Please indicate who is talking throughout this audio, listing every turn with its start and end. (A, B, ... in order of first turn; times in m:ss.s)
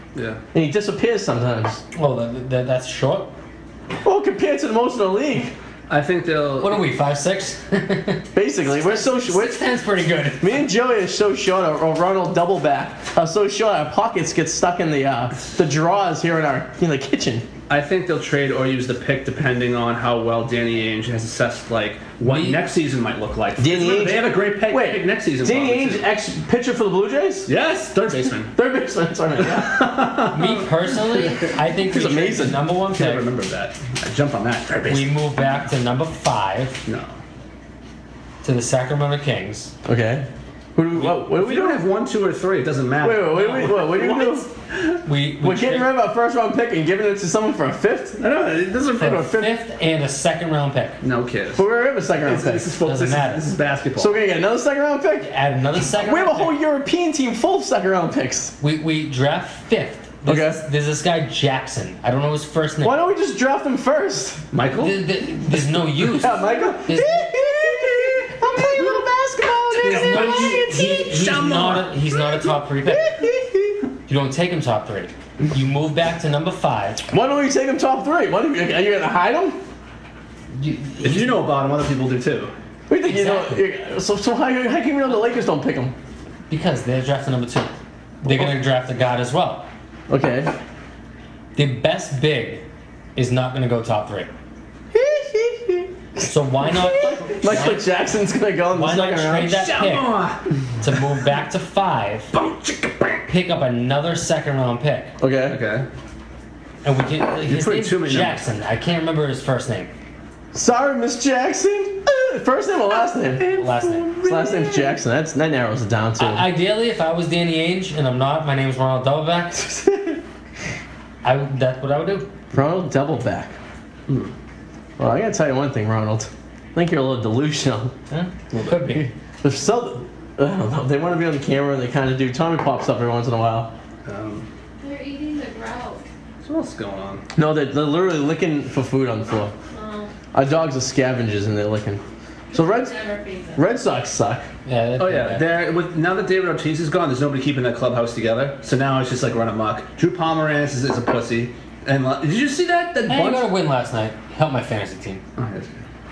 0:00.1-0:00.4 A
0:00.5-0:01.8 B
0:01.9-0:03.3 C
0:04.0-0:05.5 B
0:05.9-0:06.8 A
0:06.6-0:10.6 C
0:08.3-0:09.6 B
0:10.4-0:17.5 B
0:17.7-0:26.0 A
0:22.2-0:22.6 C
0:23.6-0:27.5 B
0:27.4-0:28.5 A
0:28.5-0:30.0 B
0:29.4-0:31.3 A
0:30.3-0:33.2 C
0:31.8-0:32.6 B
0:32.8-0:35.2 A
0:34.9-0:36.8 C
0:36.8-0:37.2 A
0:38.4-0:39.7 C
0:39.8-0:41.8 B
0:41.0-0:45.0 A
0:43.0-0:44.5 B
0:43.3-0:44.0 C
0:45.0-0:45.9 C
0:45.4-0:48.2 B
0:48.2-0:49.1 A
0:48.9-0:49.5 B
0:49.0-0:51.0 C
0:51.0-0:51.6 A
0:51.6-0:52.7 B
0:52.2-0:54.2 A
0:52.8-0:53.5 C
0:54.0-0:58.5 B
0:55.2-0:56.6 C
0:58.6-1:03.0 C
1:00.2-1:00.6 B
1:02.8-1:04.4 B
1:04.5-1:05.0 A
1:04.8-1:07.3 C
1:06.0-1:11.0 B
1:09.7-1:12.4 A
1:09.8-1:13.1 C
1:12.8-1:13.8 B
1:14.1-1:17.0 C
1:17.1-1:19.6 B
1:20.5-1:21.5 C
1:21.0-1:22.5 A
1:22.9-1:25.9 B
1:23.0-1:23.6 C
1:26.5-1:27.7 C
1:28.2-1:29.7 C
1:30.1-1:30.5 B
1:31.5-1:32.6 C
1:33.2-1:34.3 C
1:34.9-1:39.6 B
1:36.2-1:37.9 C
1:38.7-1:40.2 C
1:39.5-1:40.4 A
1:40.8-1:42.3 C
1:42.3-1:43.2 A
1:43.3-1:45.1 C
1:45.2-1:45.6 B
1:45.5-1:45.9 A
1:46.8-1:49.9 C
1:47.4-1:48.4 A
1:50.5-1:53.6 B
1:53.2-1:55.0 A
1:53.6-1:54.1 C
1:54.2-1:56.5 B
1:56.2-1:59.8 C
2:01.2-2:02.3 C
2:02.5-2:03.6 B
2:05.0-2:07.9 B
2:08.1-2:09.1 C
2:08.5-2:08.9 A
2:08.9-2:13.7 B
2:14.0-2:14.5 A
2:14.8-2:16.0 D
2:16.4-2:17.2 A
2:17.3-2:19.5 B
2:19.7-2:20.1 D
2:20.3-2:22.0 B
2:22.5-2:23.6 D
2:22.5-2:23.0 B
2:23.6-2:24.5 B
2:24.6-2:25.5 C
2:25.0-2:33.5 A
2:33.1-2:35.2 C
2:35.4-2:35.8 A